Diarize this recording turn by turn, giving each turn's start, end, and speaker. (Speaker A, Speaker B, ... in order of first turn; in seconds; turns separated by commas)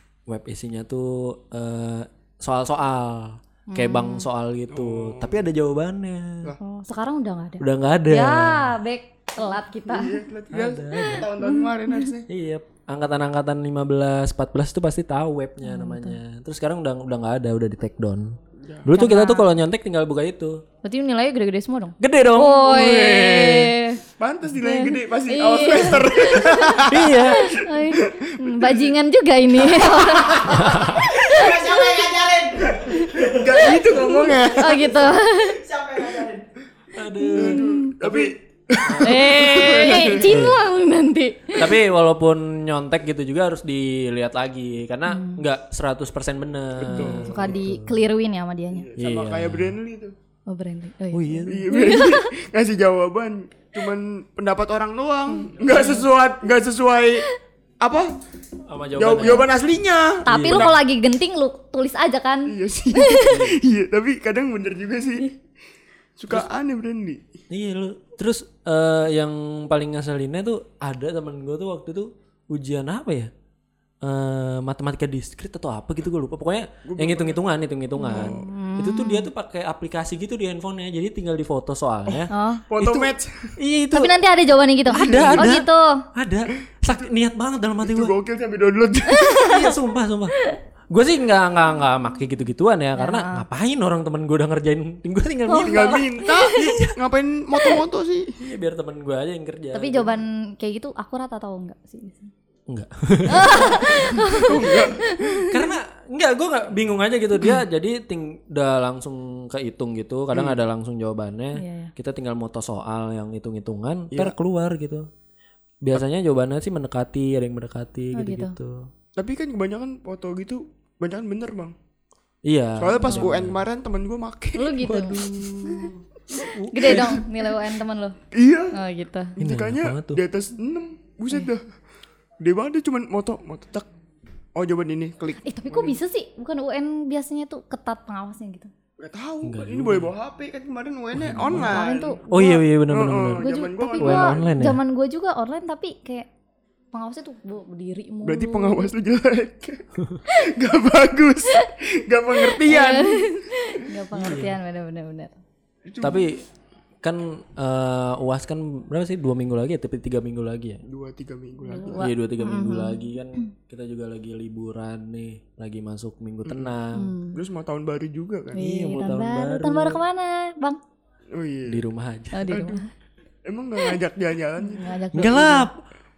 Speaker A: 0.3-6.5, Speaker B: 3.7-4.3, Speaker C: 4.7-5.4, Speaker B: 6.6-10.2, Speaker A: 7.6-8.7, Speaker C: 9.9-12.3, Speaker A: 10.5-11.3, Speaker B: 11.0-12.1, Speaker A: 12.3-20.6, Speaker B: 15.6-16.2, Speaker C: 18.6-18.9, Speaker B: 18.9-19.5, Speaker B: 20.8-24.0, Speaker A: 22.0-23.7, Speaker C: 24.2-28.9, Speaker B: 24.6-36.3, Speaker A: 26.9-27.5, Speaker C: 29.6-35.0, Speaker A: 30.5-31.1, Speaker C: 36.0-36.4, Speaker A: 36.9-38.3, Speaker B: 37.1-38.0, Speaker C: 37.3-40.5, Speaker A: 38.8-40.6, Speaker B: 39.0-41.8, Speaker A: 41.5-48.0, Speaker B: 45.1-45.4, Speaker C: 46.8-47.6, Speaker B: 46.9-48.9, Speaker C: 48.7-50.1, Speaker A: 49.0-49.8, Speaker B: 50.5-52.3, Speaker A: 51.1-51.7, Speaker C: 51.5-57.2, Speaker B: 55.3-56.0, Speaker C: 57.8-58.1, Speaker A: 58.7-59.5, Speaker C: 59.0-60.7, Speaker B: 60.2-63.4, Speaker A: 60.3-60.8, Speaker C: 62.5-65.3, Speaker A: 63.2-63.6, Speaker C: 66.2-67.2, Speaker A: 67.5-73.3, Speaker A: 74.0-84.1, Speaker C: 76.8-77.4, Speaker B: 78.0-79.3, Speaker C: 78.1-78.5, Speaker B: 82.3-82.6, Speaker C: 82.7-83.5, Speaker B: 83.9-86.0, Speaker A: 84.9-88.1, Speaker C: 84.9-85.5, Speaker C: 87.8-89.7, Speaker B: 89.2-89.5, Speaker A: 89.3-90.3, Speaker A: 90.9-97.0, Speaker B: 93.0-93.4, Speaker B: 95.5-96.7, Speaker C: 95.6-98.3, Speaker A: 98.4-100.2, Speaker B: 99.7-102.3, Speaker A: 102.7-104.8, Speaker B: 103.3-105.6, Speaker C: 104.3-105.4, Speaker A: 105.5-115.1, Speaker C: 110.3-110.6, Speaker B: 111.5-111.9, Speaker A: 115.8-118.9, Speaker B: 118.1-118.5, Speaker C: 119.2-121.7, Speaker A: 122.4-123.6, Speaker C: 122.8-124.9, Speaker B: 123.0-123.3, Speaker B: 124.5-125.9, Speaker A: 124.8-127.3, Speaker B: 126.7-128.2, Speaker C: 128.3-128.8, Speaker B: 128.7-129.3, Speaker C: 129.4-131.6, Speaker A: 129.4-130.2, Speaker C: 132.4-133.9, Speaker C: 134.6-136.0, Speaker B: 135.4-138.7, Speaker C: 139.0-142.2, Speaker A: 139.4-140.1, Speaker A: 141.1-141.7, Speaker B: 141.5-142.6, Speaker A: 142.3-144.8, Speaker C: 142.9-144.5, Speaker B: 143.4-146.3, Speaker B: 146.9-148.9, Speaker C: 148.2-149.9, Speaker C: 150.4-153.4, Speaker B: 152.3-155.4, Speaker A: 154.1-154.6, Speaker C: 155.8-156.3, Speaker A: 156.0-156.4, Speaker A: 157.0-160.8, Speaker C: 160.8-162.1, Speaker B: 161.7-163.5, Speaker A: 162.0-167.1, Speaker C: 166.4-166.7, Speaker B: 166.9-167.4, Speaker C: 167.3-168.6, Speaker B: 168.5-170.8, Speaker A: 168.6-170.0, Speaker C: 171.3-171.8, Speaker A: 171.7-172.6, Speaker B: 172.3-172.9, Speaker C: 172.5-172.8, Speaker C: 173.4-175.0, Speaker B: 174.6-175.7, Speaker A: 175.1-175.8